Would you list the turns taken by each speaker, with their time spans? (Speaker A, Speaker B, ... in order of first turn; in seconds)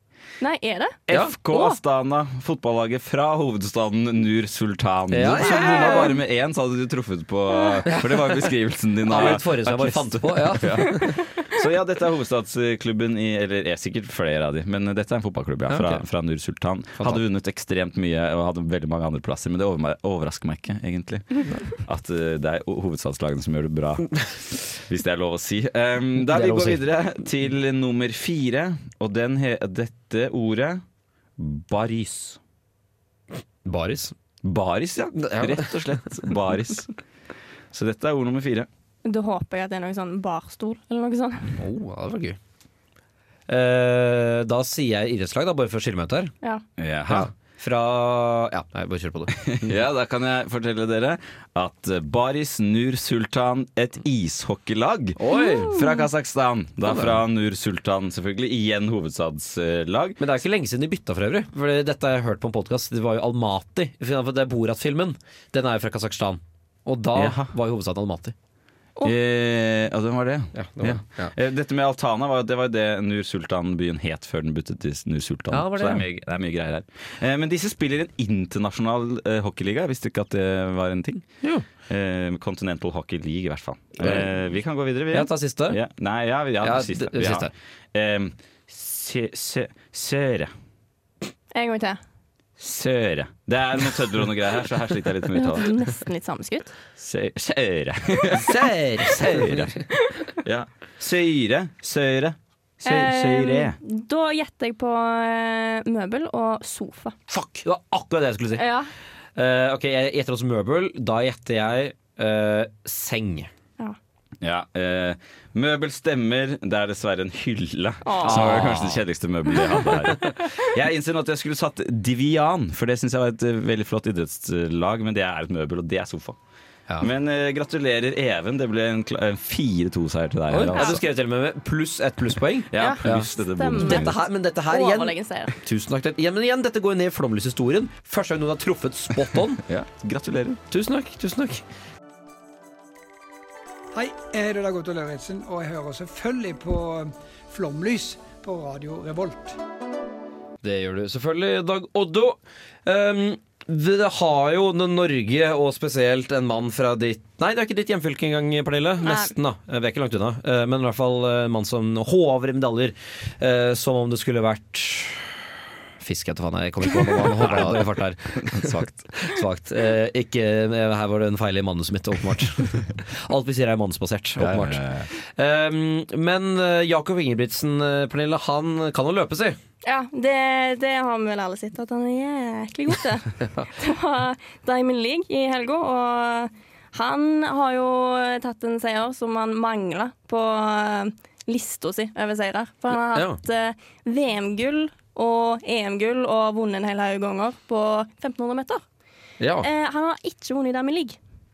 Speaker A: 0.4-1.8, 5.6-6.0, 39.0-41.6, 55.3-56.1, 91.5-92.0, 95.3-96.7, 102.8-107.1, 108.5-108.9, 118.0-118.5, 130.7-131.0, 132.8-135.6, 159.0-159.3, 179.8-198.8, 199.6-201.2
Speaker B: 1.1-30.8, 31.4-32.4, 34.4-36.9, 37.7-38.7, 46.8-47.3, 49.5-60.2, 67.1-67.5, 69.0-81.3, 81.8-90.5, 92.6-95.7, 97.0-99.8, 100.4-103.8, 114.4-126.4, 127.0-131.0, 132.7-134.2, 139.6-140.6, 167.4-169.1, 174.4-175.1
Speaker C: 5.1-6.1, 7.8-8.4, 9.1-11.2, 15.7-16.0, 26.2-26.8, 33.6-34.1, 35.1-36.3, 41.6-42.4, 43.5-46.3, 47.1-49.8, 55.2-55.7, 56.9-57.1, 60.2-68.3, 70.5-71.3, 75.5-76.0, 84.0-84.3, 85.1-85.8, 86.6-87.5, 98.3-99.7, 107.3-108.7, 109.3-113.5, 118.2-119.0, 130.5-139.6, 140.7-141.6, 150.6-165.4, 166.0-179.6, 193.1-193.4, 199.4-199.7
Speaker D: 143.9-149.6